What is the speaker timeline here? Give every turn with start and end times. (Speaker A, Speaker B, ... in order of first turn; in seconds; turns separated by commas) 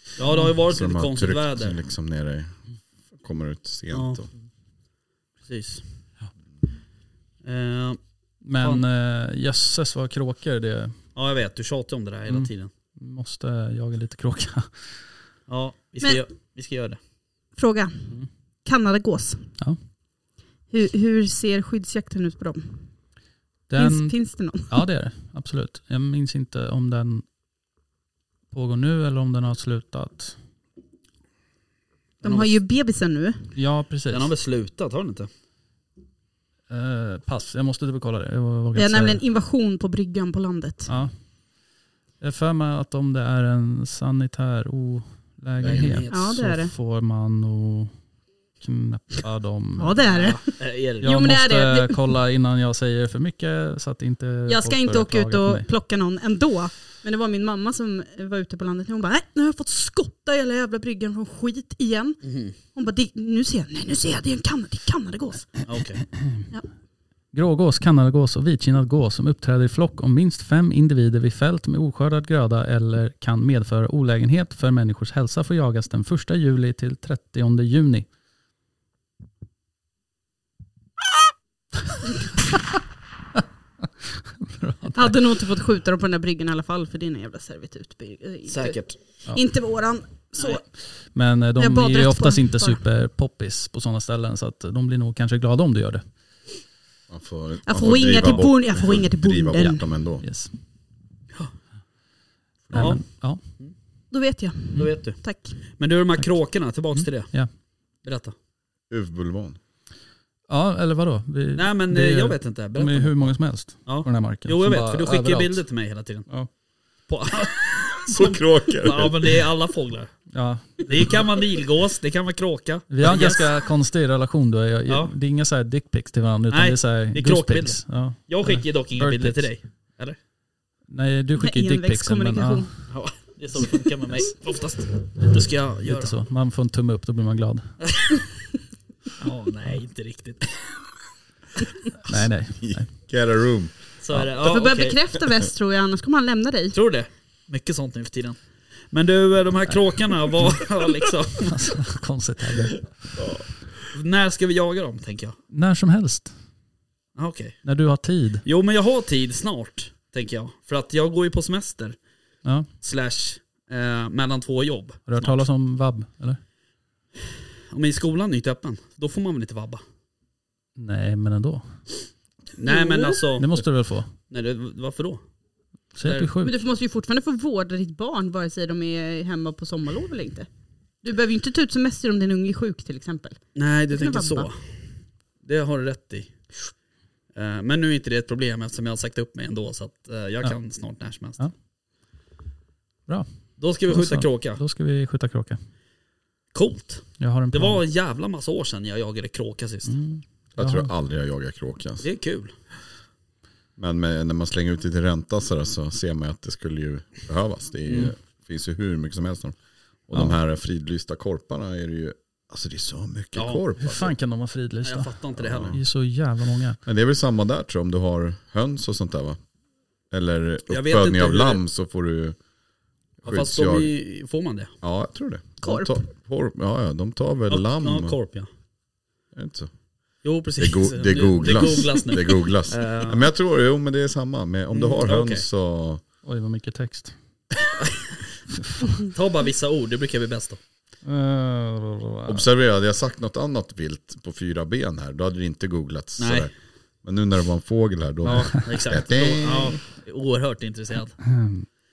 Speaker A: 0.2-1.8, Speaker B: 0.3-0.5, Speaker C: 0.6-2.5, Speaker C: 3.2-4.3, Speaker A: 3.9-4.2, Speaker A: 5.4-5.8, Speaker A: 7.4-8.0, Speaker B: 8.4-11.0, Speaker A: 11.2-12.7, Speaker B: 12.3-14.9, Speaker A: 15.5-17.0, Speaker D: 17.6-18.1, Speaker D: 18.6-19.5, Speaker D: 20.7-22.8, Speaker B: 23.7-24.1, Speaker D: 23.8-24.8, Speaker B: 24.7-27.2, Speaker B: 28.5-30.4, Speaker D: 32.2-33.5, Speaker A: 32.2-32.5, Speaker B: 33.5-34.3, Speaker A: 34.1-35.3, Speaker B: 36.7-39.2, Speaker D: 38.7-40.9, Speaker B: 40.9-41.1, Speaker B: 42.2-47.9, Speaker A: 45.6-46.3, Speaker D: 46.1-46.7, Speaker B: 48.6-50.1, Speaker D: 49.8-52.0, Speaker A: 50.1-51.1, Speaker B: 51.0-55.7, Speaker D: 54.5-65.6, Speaker A: 62.2-62.5, Speaker A: 65.7-66.0, Speaker B: 66.1-66.5, Speaker B: 67.3-78.1, Speaker B: 83.4-85.1, Speaker D: 84.9-90.6, Speaker A: 88.5-89.0, Speaker B: 91.1-96.0, Speaker D: 91.6-92.8, Speaker C: 97.1-100.2, Speaker D: 97.7-99.8, Speaker A: 98.1-98.4, Speaker B: 100.2-100.5, Speaker D: 102.7-103.0, Speaker B: 102.7-103.4, Speaker A: 102.7-103.0, Speaker D: 104.1-105.6, Speaker A: 104.7-105.2, Speaker A: 105.7-107.3, Speaker B: 106.9-107.5, Speaker A: 108.0-108.3, Speaker C: 108.9-109.6, Speaker B: 110.5-115.6, Speaker A: 111.5-113.3, Speaker A: 113.8-116.3, Speaker A: 117.1-120.1, Speaker C: 118.0-119.5, Speaker B: 120.3-121.0, Speaker A: 120.8-123.5, Speaker B: 122.9-129.5, Speaker A: 124.9-125.1, Speaker A: 126.5-130.2, Speaker B: 130.9-132.7, Speaker D: 131.4-132.7, Speaker A: 132.9-136.2, Speaker B: 135.8-137.7, Speaker A: 137.8-138.2, Speaker A: 139.2-140.6, Speaker B: 142.0-142.9, Speaker C: 142.1-144.3, Speaker A: 144.0-145.0, Speaker D: 144.4-146.8, Speaker A: 146.7-148.4, Speaker A: 148.9-151.8, Speaker B: 151.5-152.9, Speaker C: 153.2-153.4, Speaker A: 153.9-155.4, Speaker B: 155.5-156.3, Speaker A: 157.2-157.6, Speaker B: 157.6-158.4, Speaker A: 158.4-162.0, Speaker A: 162.8-165.4, Speaker B: 165.1-166.4, Speaker A: 167.7-169.8, Speaker B: 170.8-171.7, Speaker A: 172.6-173.6, Speaker D: 172.6-173.2, Speaker B: 173.4-174.1, Speaker A: 174.3-175.2, Speaker B: 175.9-176.5, Speaker A: 176.0-176.3, Speaker D: 176.4-180.5, Speaker D: 181.0-184.5, Speaker A: 183.5-184.6, Speaker A: 185.4-186.3, Speaker A: 187.3-191.4, Speaker A: 193.6-194.6, Speaker B: 193.9-195.6, Speaker A: 196.5-199.9, Speaker B: 197.2-197.8, Speaker B: 199.9-200.9, Speaker C: 200.6-202.1, Speaker A: 202.0-202.5, Speaker C: 203.8-209.6, Speaker A: 207.9-208.1, Speaker C: 210.1-214.1, Speaker A: 213.3-213.6, Speaker B: 213.8-215.1, Speaker A: 214.8-215.8, Speaker C: 215.4-215.8, Speaker B: 215.7-216.8, Speaker C: 216.8-219.4, Speaker C: 220.1-222.4, Speaker A: 220.7-221.6, Speaker C: 223.2-223.9, Speaker A: 223.2-224.7, Speaker C: 224.8-228.1, Speaker D: 225.6-226.0, Speaker A: 227.5-228.5, Speaker C: 229.3-229.7, Speaker A: 230.2-233.2, Speaker C: 230.6-236.0, Speaker A: 234.7-235.4, Speaker B: 236.2-237.1, Speaker A: 237.8-238.2, Speaker B: 238.6-238.9, Speaker A: 238.9-240.6, Speaker B: 241.0-242.5, Speaker C: 242.3-246.5, Speaker A: 246.2-246.5, Speaker C: 247.0-249.8, Speaker A: 248.2-251.2, Speaker B: 251.2-251.7